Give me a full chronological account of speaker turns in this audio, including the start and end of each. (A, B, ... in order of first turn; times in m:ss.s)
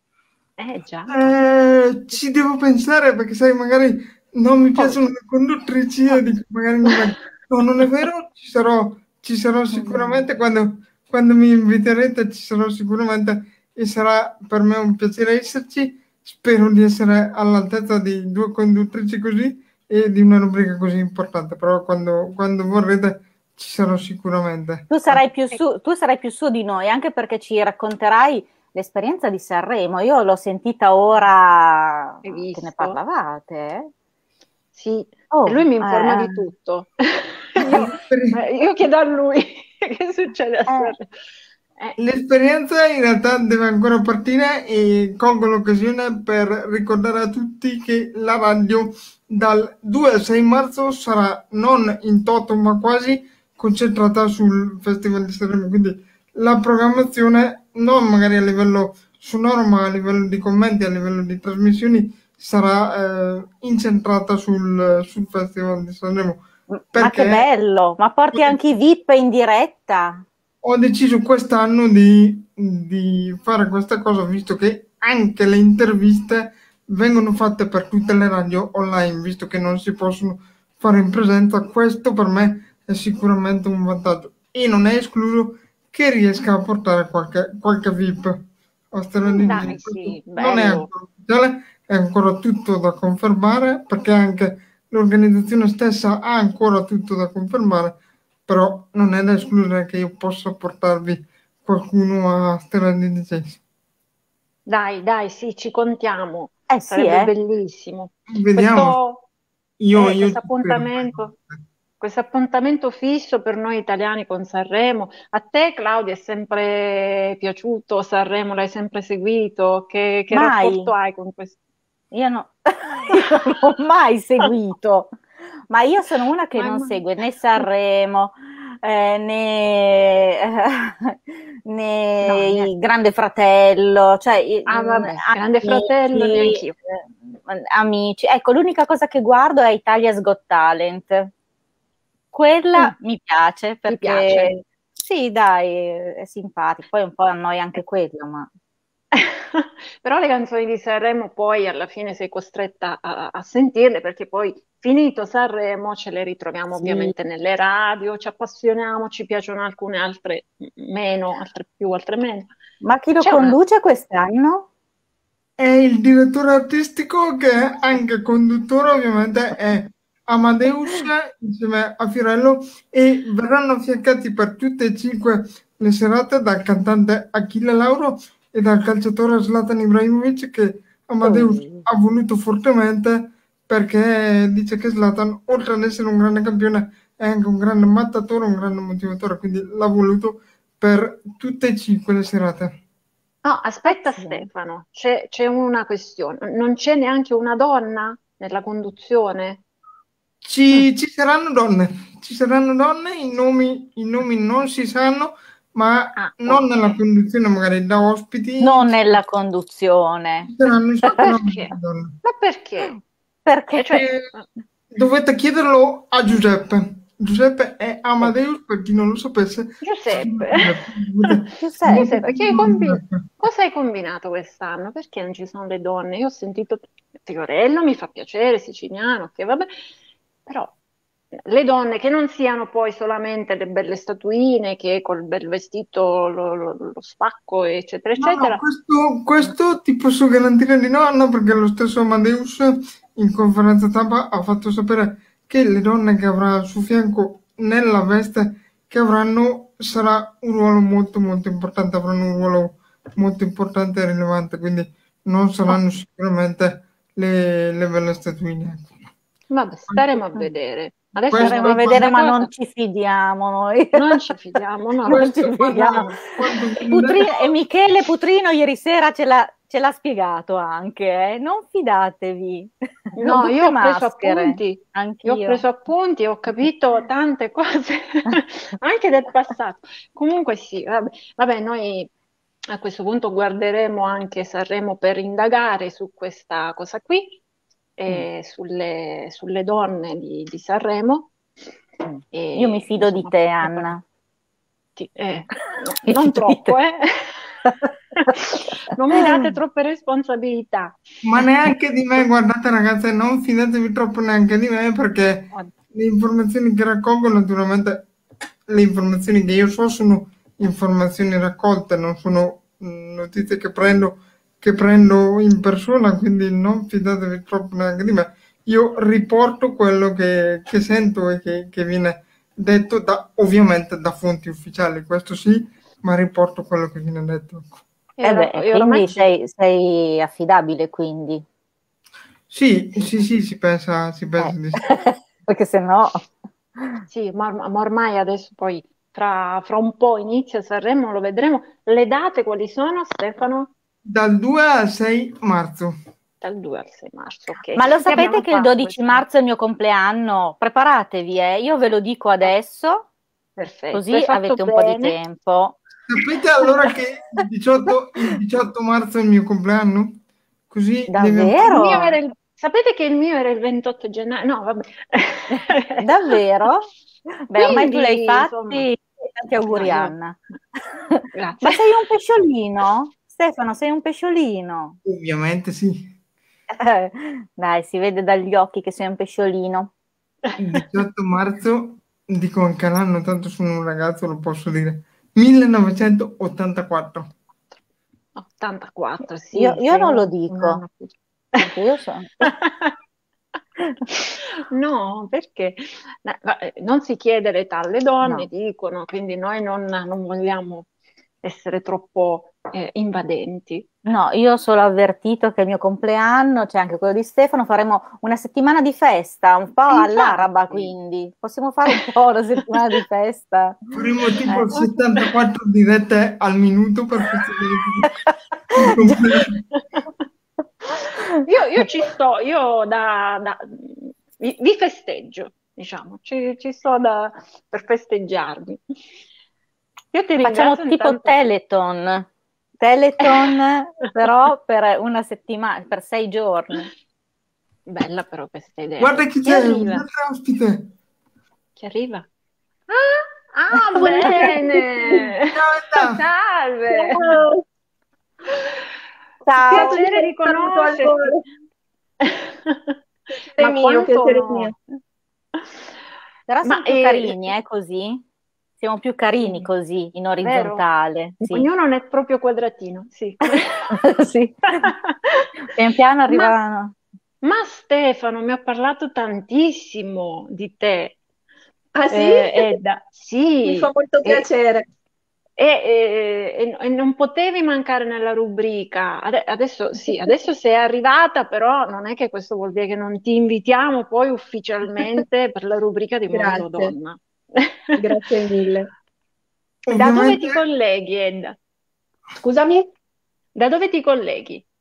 0:00.6-0:01.3 A
0:01.1-0:25.2 B
0:09.8-0:10.2 C
0:24.9-0:33.9 C
0:32.2-0:33.0 A
0:34.7-0:41.1 A
0:35.3-0:36.5 C
0:37.6-0:38.4 B
0:40.7-0:40.9 C
0:42.0-1:07.5 B
1:06.9-1:10.2 C
1:08.3-1:08.6 B
1:10.6-1:43.6 B
1:29.2-1:30.9 A
1:44.7-1:49.2 A
1:46.7-1:47.3 C
1:48.3-1:49.0 B
1:49.8-1:51.6 B
1:49.9-1:51.3 A
1:52.0-2:01.6 A
2:00.3-2:00.9 C
2:02.1-2:05.1 C
2:05.7-2:21.3 C
2:06.5-2:07.0 A
2:12.2-2:12.7 A
2:14.7-2:16.7 A
2:22.3-2:28.5 C
2:23.9-2:24.5 A
2:29.1-2:42.5 A
2:36.8-2:37.1 C
2:42.8-2:44.7 C
2:43.2-2:43.6 A
2:45.6-3:12.7 B
3:01.2-3:01.8 C
3:13.4-3:19.6 A
3:13.9-3:14.5 C
3:20.4-3:29.2 B
3:26.2-3:27.0 A
3:28.6-3:30.5 C
3:30.4-3:32.1 B
3:31.2-3:33.0 A
3:33.4-3:34.0 C
3:33.7-3:34.5 A
3:33.9-3:34.3 B
3:34.9-3:43.3 B
3:39.8-3:49.7 A
3:41.6-3:42.3 C
3:50.4-3:50.7 A
3:51.4-3:58.6 A
3:58.2-4:19.0 B
4:19.5-4:22.5 A
4:19.9-4:20.3 B
4:21.3-4:22.1 B
4:21.3-4:26.2 C
4:23.9-4:25.9 A
4:25.0-4:27.5 B
4:26.9-4:35.6 C
4:33.2-4:42.1 A
4:42.7-4:47.4 A
4:48.0-4:51.3 A
4:52.0-4:54.0 C
4:52.3-4:53.9 A
4:55.0-4:57.5 A
4:56.0-4:56.8 C
4:57.6-4:58.3 C
4:58.3-5:01.0 A
4:59.1-4:59.6 C
5:01.2-5:08.0 B
5:08.7-5:27.8 B
5:28.2-5:29.3 A
5:28.2-5:31.4 C
5:32.5-5:34.8 B
5:34.4-5:36.3 C
5:37.1-5:43.7 A
5:44.0-5:45.9 B
5:46.4-5:49.2 A
5:47.7-5:53.0 C
5:53.6-5:55.2 A
5:53.9-5:55.8 C
5:56.1-6:01.8 B
6:01.1-6:02.2 C
6:01.6-6:06.0 A
6:05.5-6:06.9 C
6:07.5-6:10.4 C
6:07.6-6:08.8 A
6:09.7-6:10.1 A
6:11.0-6:15.0 C
6:11.3-6:11.9 A
6:15.0-6:16.1 B
6:16.7-6:19.9 C
6:20.4-6:20.8 A
6:20.6-6:27.3 B
6:28.4-6:31.7 A
6:29.5-6:30.8 C
6:31.6-6:32.5 C
6:32.4-6:32.9 A
6:34.1-6:40.9 A
6:38.2-6:38.5 C
6:41.4-6:43.8 A
6:44.0-6:53.8 C
6:49.9-6:50.9 A
6:53.9-6:58.1 B
6:58.7-6:59.6 B
7:01.4-7:08.8 A
7:10.1-7:11.5 A
7:10.4-7:12.3 C
7:12.8-7:16.9 C
7:17.9-7:20.0 A
7:19.0-7:20.9 B
7:21.8-7:22.3 A
7:22.9-7:27.3 A
7:24.0-7:25.3 D
7:25.5-7:26.2 B
7:26.9-7:27.6 D
7:29.4-7:30.0 C
7:29.7-7:31.3 A
7:29.7-7:31.4 D
7:32.2-7:32.9 A
7:33.6-7:34.7 D
7:33.6-7:34.7 A
7:36.5-7:38.2 C
7:36.6-7:37.5 A
7:38.8-7:41.7 C
7:39.4-7:39.7 A
7:40.4-7:40.8 A
7:41.4-7:44.0 A
7:43.9-7:44.9 C
7:44.8-7:45.5 A
7:45.7-7:46.9 C
7:46.3-7:46.5 A
7:47.4-7:51.2 A
7:51.9-7:52.8 D
7:52.1-7:54.4 A
7:53.6-7:54.8 D
7:55.6-8:08.0 A
8:00.0-8:00.3 D
8:06.3-8:06.9 D
8:08.0-8:08.9 D
8:09.8-8:10.6 B
8:09.9-8:11.6 A
8:12.4-8:12.9 D
8:13.5-8:14.6 A